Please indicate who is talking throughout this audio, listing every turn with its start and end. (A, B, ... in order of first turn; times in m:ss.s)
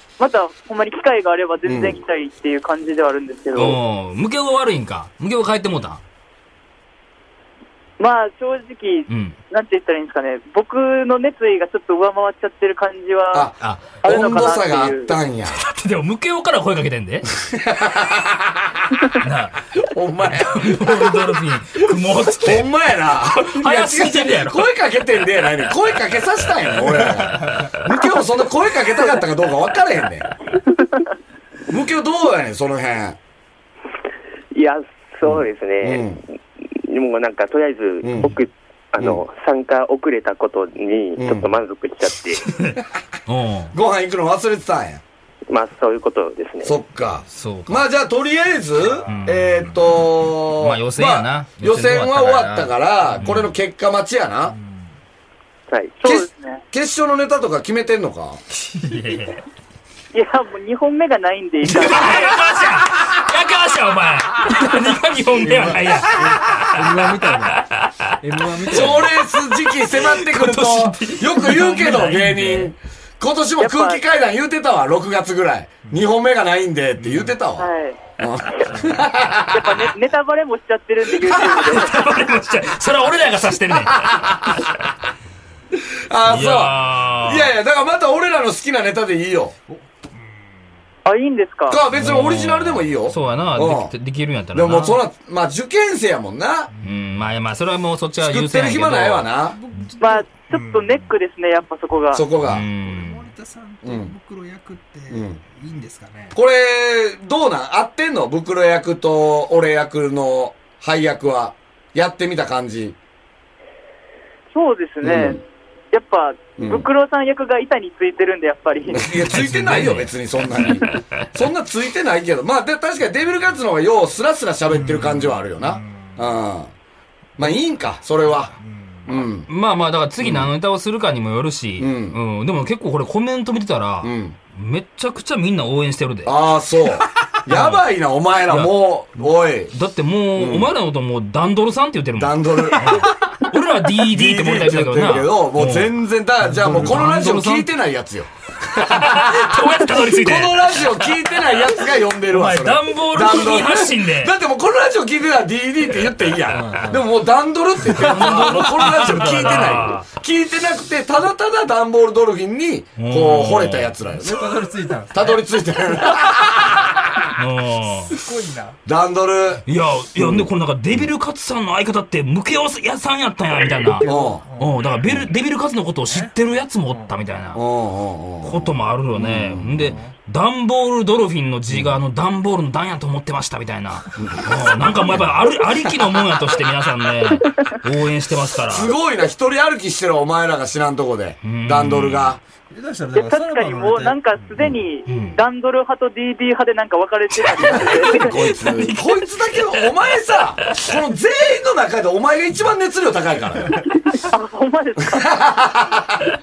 0:00.2-0:03.8 A
0:01.6-0:02.0 B
0:03.6-0:06.0 C
0:08.0-0:13.5 A
0:09.1-0:09.4 C
0:13.3-0:15.6 B
0:13.6-0:14.0 C
0:14.0-0:15.1 A
0:15.6-0:17.3 C
0:17.4-0:18.8 B
0:19.2-0:19.8 C
0:19.8-0:21.2 B
0:20.4-0:24.7 C
0:22.3-0:30.4 B
0:27.2-0:27.6 D
0:31.7-0:33.2 B
0:34.5-0:42.5 E
0:35.2-0:36.2 B
0:38.0-0:38.4 B
0:41.2-0:41.5 B
0:43.3-0:43.8 C
0:43.7-0:45.0 B
0:45.5-0:46.8 E
0:46.6-0:54.6 B
0:47.3-0:47.8 C
0:49.0-0:49.3 D
0:49.1-0:49.6 C
0:50.6-0:53.5 C
0:54.5-0:55.0 D
0:55.7-0:56.0 E
0:56.0-0:56.6 A
0:56.0-0:58.4 B
0:58.6-0:59.2 D
0:58.9-0:59.4 C
1:00.1-1:02.4 A
1:01.6-1:06.7 C
1:05.4-1:07.7 D
1:05.7-1:06.7 B
1:07.6-1:08.0 C
1:08.2-1:09.2 D
1:08.6-1:09.1 C
1:08.7-1:19.9 B
1:09.8-1:12.7 C
1:13.6-1:14.0 A
1:17.0-1:17.4 D
1:17.6-1:18.0 A
1:18.7-1:19.0 D
1:19.5-1:21.9 A
1:21.4-1:24.8 C
1:23.8-1:24.6 B
1:26.1-1:29.6 B
1:26.2-1:27.5 C
1:31.0-1:31.8 A
1:31.7-1:33.9 B
1:31.9-1:35.0 C
1:34.5-1:36.7 B
1:36.7-1:37.3 D
1:36.8-1:39.3 C
1:38.2-1:39.6 B
1:39.4-1:41.2 D
1:40.0-1:42.2 A
1:42.1-1:42.7 B
1:42.4-1:43.3 C
1:42.6-1:46.4 D
1:43.8-1:44.1 B
1:45.1-1:45.4 B
1:46.3-1:53.0 B
1:54.5-1:55.4 A
1:55.0-1:55.4 B
1:55.9-1:59.2 A
1:56.6-1:56.9 B
1:58.9-2:06.7 B
1:59.3-2:01.0 C
2:04.7-2:06.4 D
2:07.4-2:08.5 B
2:08.4-2:09.3 D
2:09.0-2:09.5 B
2:09.5-2:16.4 C
2:10.2-2:10.5 B
2:11.8-2:12.2 B
2:14.0-2:14.4 B
2:16.2-2:19.8 B
2:17.5-2:17.8 C
2:18.5-2:18.8 C
2:19.7-2:27.7 C
2:20.4-2:20.7 B
2:22.2-2:23.1 B
2:24.0-2:44.5 B
2:26.5-2:27.0 D
2:28.8-2:34.3 C
2:36.5-2:37.1 D
2:37.9-2:40.1 C
2:43.0-2:44.0 C
2:44.1-2:45.4 D
2:45.1-2:47.3 B
2:47.4-2:48.2 C
2:48.1-2:48.8 D
2:48.9-2:50.5 B
2:49.7-2:57.6 C
2:54.0-2:54.9 D
2:54.0-2:54.5 B
2:56.1-2:57.2 D
2:57.5-3:00.0 B
2:58.4-3:09.0 C
2:59.8-3:00.2 D
3:01.7-3:02.0 B
3:04.2-3:06.5 B
3:08.6-3:12.4 B
3:11.4-3:12.4 C
3:12.7-3:14.6 D
3:13.1-3:18.4 A
3:15.1-3:15.4 C
3:17.6-3:19.8 C
3:17.8-3:23.8 B
3:24.2-3:25.3 A
3:25.1-3:26.0 B